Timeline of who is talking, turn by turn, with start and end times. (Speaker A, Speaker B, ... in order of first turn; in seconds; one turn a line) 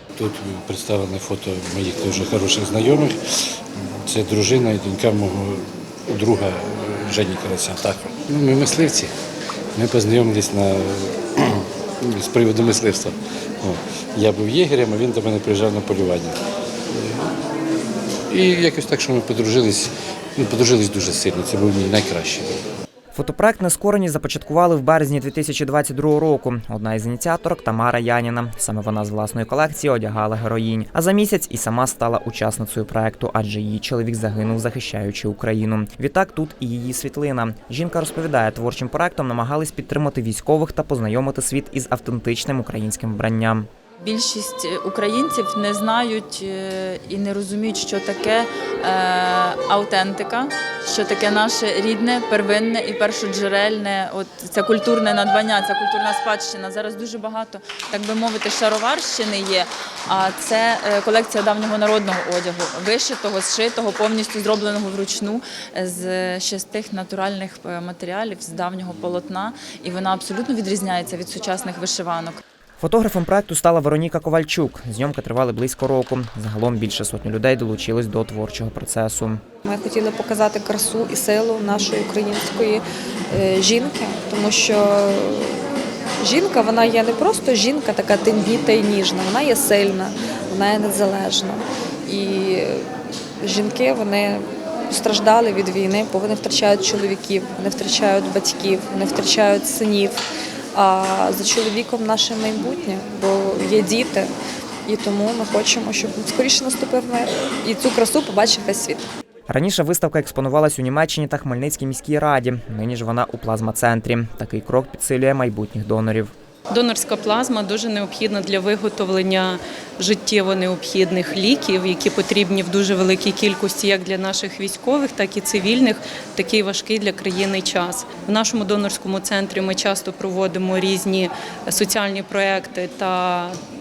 Speaker A: 0.2-3.1
Speaker A: 4.1-9.1
Speaker A: 9.7-16.4
Speaker A: 16.9-17.3
Speaker A: 18.3-22.5
Speaker B: 23.1-43.7
Speaker C: 44.0-72.4
Speaker B: 72.8-79.4
Speaker D: 79.6-85.6
Speaker D: 86.2-92.9
Speaker D: 93.4-100.2
Speaker D: 100.7-104.3
Speaker D: 104.8-109.0
Speaker B: 109.5-116.3
Speaker E: 116.7-133.6